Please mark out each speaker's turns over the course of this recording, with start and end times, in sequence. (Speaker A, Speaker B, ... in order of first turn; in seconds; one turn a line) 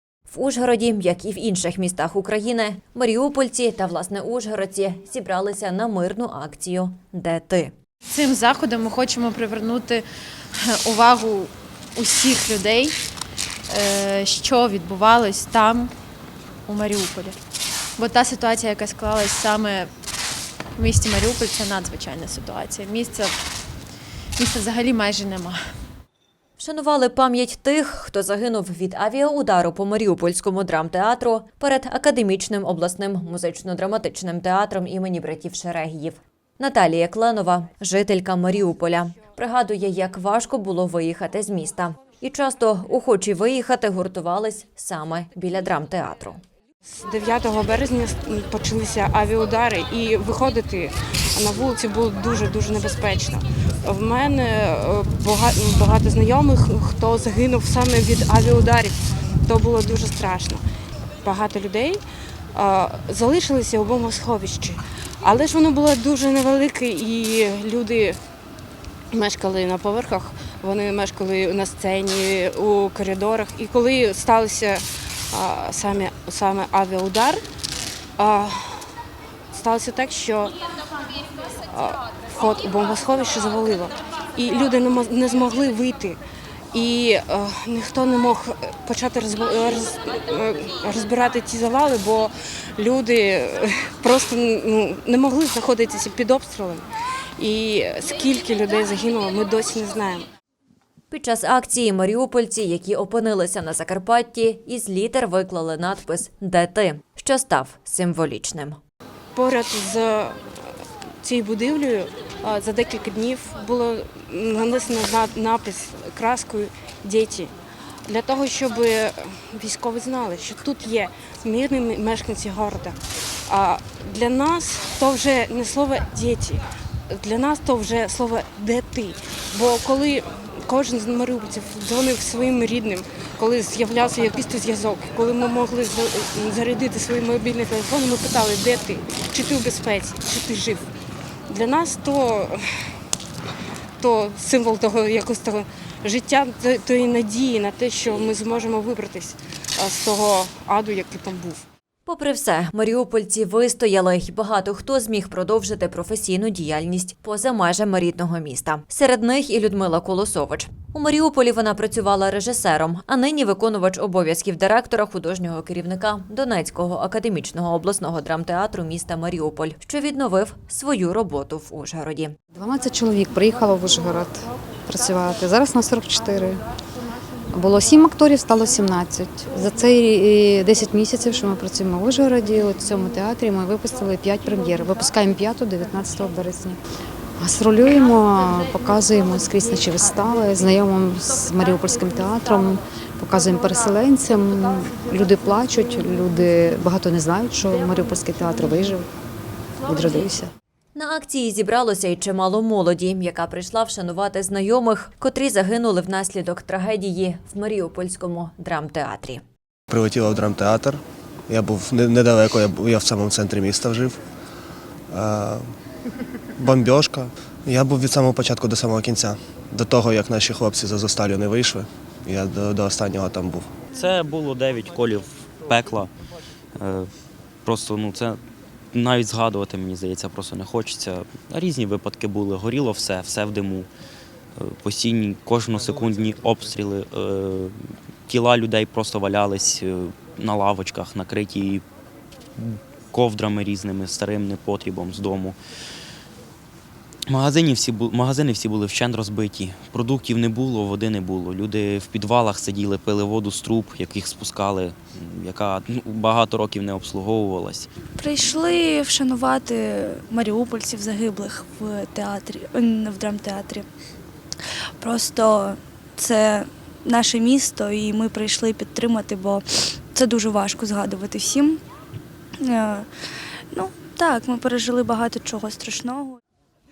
Speaker A: 0.3-7.7
Speaker B: 8.1-10.0
Speaker B: 10.6-12.9
Speaker B: 13.7-15.9
Speaker B: 16.7-17.4
Speaker B: 18.0-19.9
Speaker B: 20.8-23.3
Speaker B: 24.4-25.6
Speaker A: 26.6-46.4
Speaker C: 46.9-60.6
Speaker C: 61.2-62.0
Speaker C: 62.5-68.2
Speaker C: 69.1-77.4
Speaker C: 78.2-78.9
Speaker C: 79.5-80.5
Speaker C: 81.7-86.2
Speaker C: 86.7-96.9
Speaker C: 97.4-100.3
Speaker A: 101.1-108.8
Speaker C: 109.3-117.5
Speaker C: 118.1-123.0
Speaker C: 123.5-140.9
Speaker C: 141.5-142.6
Speaker C: 144.0-151.6
Speaker A: 152.1-172.3
Speaker D: 172.5-176.6
Speaker D: 177.5-186.8
Speaker D: 187.4-199.1
Speaker D: 199.8-200.5
Speaker A: 200.9-209.4
Speaker E: 209.9-214.2
Speaker E: 215.1-215.7
Speaker E: 216.6-223.7
Speaker F: 223.9-226.1
Speaker F: 226.8-227.1
Speaker F: 227.6-228.4
Speaker F: 228.9-233.9
Speaker F: 234.6-237.7
Speaker F: 238.3-241.8
Speaker F: 242.6-245.6
Speaker F: 247.3-257.9
Speaker G: 258.1-263.9
Speaker G: 264.6-271.8
Speaker G: 272.6-273.1
Speaker G: 273.7-276.4